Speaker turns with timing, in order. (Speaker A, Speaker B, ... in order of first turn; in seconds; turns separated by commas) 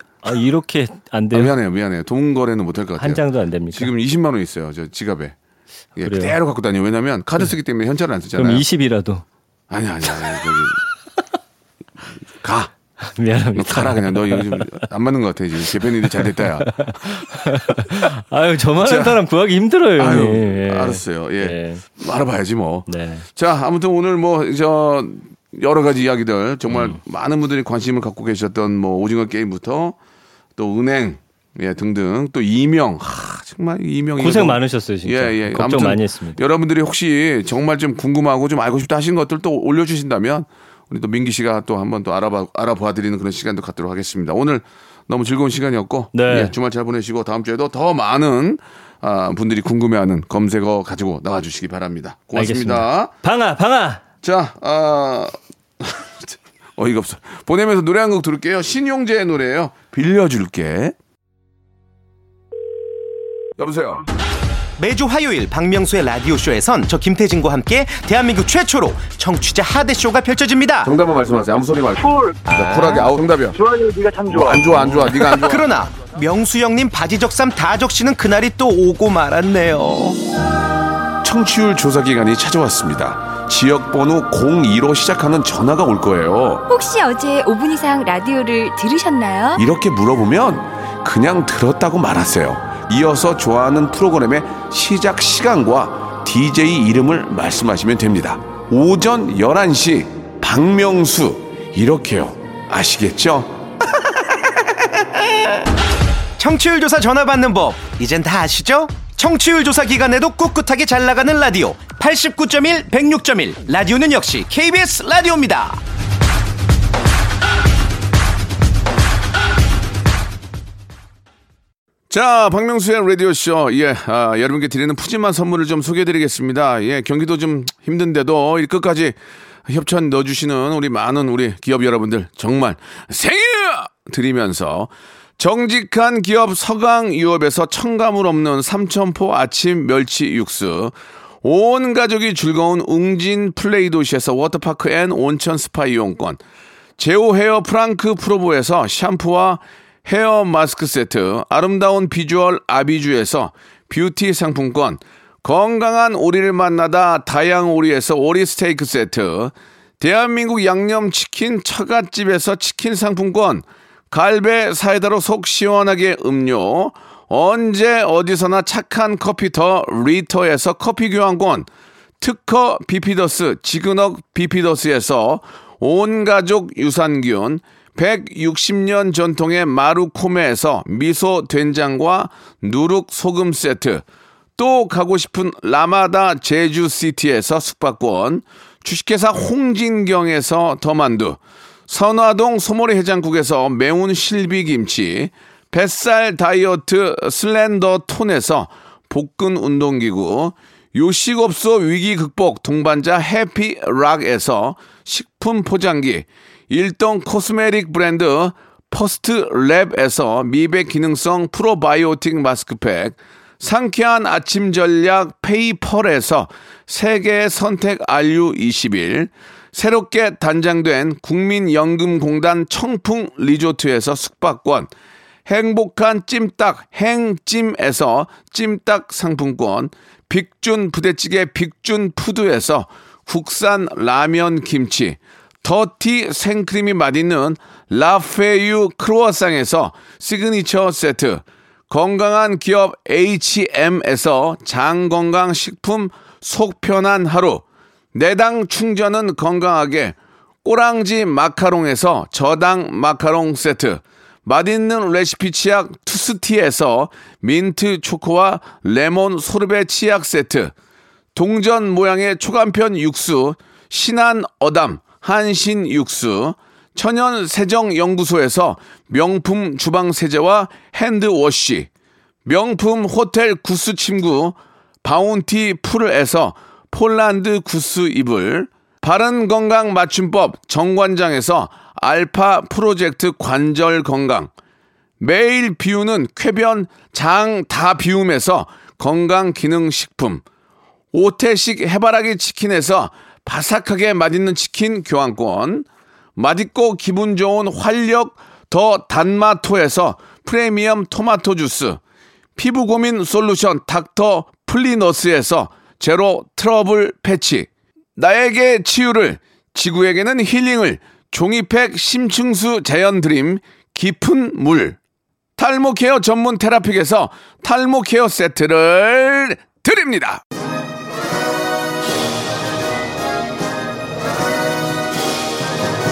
Speaker A: 0.2-1.5, Speaker B: 1.3-5.3, Speaker A: 3.0-3.9, Speaker B: 6.0-8.7, Speaker A: 6.0-6.3, Speaker A: 8.4-9.2, Speaker B: 9.7-10.8, Speaker B: 12.3-12.7, Speaker A: 13.0-14.7, Speaker B: 13.5-17.1, Speaker A: 16.0-21.8, Speaker B: 18.8-19.2, Speaker B: 20.0-29.9, Speaker A: 22.9-23.2, Speaker A: 26.7-27.0, Speaker B: 30.6-53.1, Speaker A: 34.2-36.4, Speaker A: 46.1-46.5, Speaker A: 52.3-54.0, Speaker B: 54.2-61.0, Speaker B: 63.6-64.0, Speaker C: 64.8-70.9, Speaker B: 70.8-73.6, Speaker D: 71.9-74.8, Speaker B: 74.3-75.7, Speaker C: 75.2-80.2, Speaker B: 81.2-86.6, Speaker E: 86.7-89.6, Speaker B: 89.5-103.6, Speaker C: 106.4-115.8, Speaker B: 122.1-146.4, Speaker B: 147.0-171.7, Speaker B: 172.2-184.0, Speaker B: 184.6-224.9, Speaker B: 225.5-260.7, Speaker B: 261.3-271.9, Speaker B: 272.4-284.5, Speaker B: 285.2-290.4, Speaker B: 291.1-302.0, Speaker B: 302.6-315.0, Speaker B: 315.6-320.4